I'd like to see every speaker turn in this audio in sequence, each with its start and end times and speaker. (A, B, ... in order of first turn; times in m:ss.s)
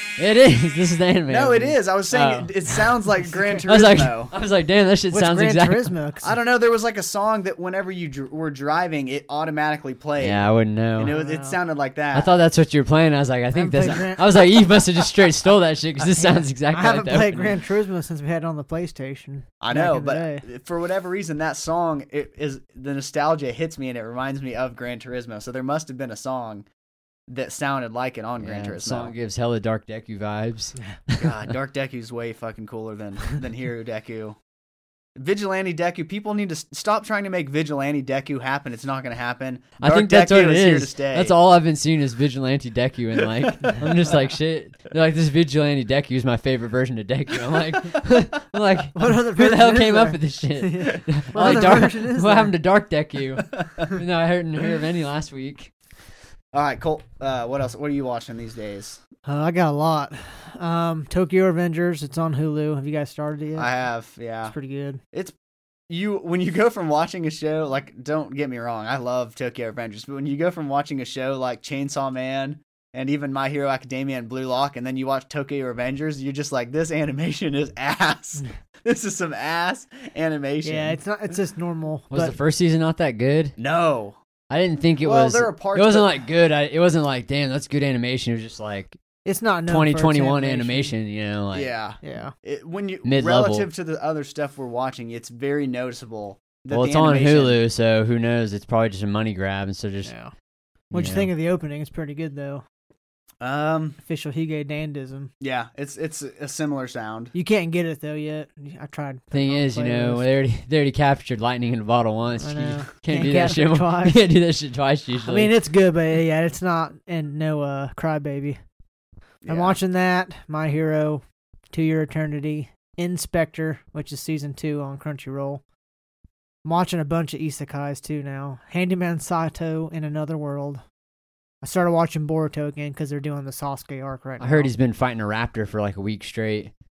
0:00.2-0:02.9 A
0:01.3-0:04.3 B
0:03.6-0:05.9 A
0:05.1-0:06.4 C
0:06.2-0:10.4 B
0:10.2-0:11.1 A
0:11.0-0:12.3 B
0:11.1-0:11.6 C
0:12.1-0:17.6 A
0:13.5-0:14.4 C
0:16.0-0:20.4 C
0:19.6-0:26.6 B
0:27.3-0:29.1 B
0:28.4-0:31.4 A
0:31.2-0:34.4 B
0:35.2-0:41.4 B
0:39.8-0:55.7 A
0:48.9-0:52.5 C
0:53.5-0:53.9 B
0:56.5-0:59.0 B
0:59.2-1:03.7 C
1:03.6-1:04.5 B
1:04.5-1:05.0 C
1:05.9-1:21.0 B
1:20.6-1:22.4 C
1:22.1-1:23.5 A
1:23.6-1:24.2 B
1:24.5-1:29.0 A
1:25.0-1:26.2 B
1:29.2-1:30.9 C
1:29.7-1:31.7 A
1:31.5-1:37.6 B
1:32.0-1:32.3 C
1:33.0-1:33.7 A
1:36.7-1:40.1 A
1:40.0-1:40.3 C
1:40.9-1:41.3 A
1:40.9-1:42.6 C
1:43.4-1:44.0 B
1:44.0-1:45.3 C
1:45.4-1:47.3 B
1:47.3-1:50.2 C
1:49.3-1:55.5 A
1:52.4-1:54.2 C
1:55.2-1:58.6 C
1:59.4-1:59.8 B
1:59.5-2:05.6 C
2:06.6-2:10.8 C
2:11.6-2:14.7 C
2:14.4-2:16.7 A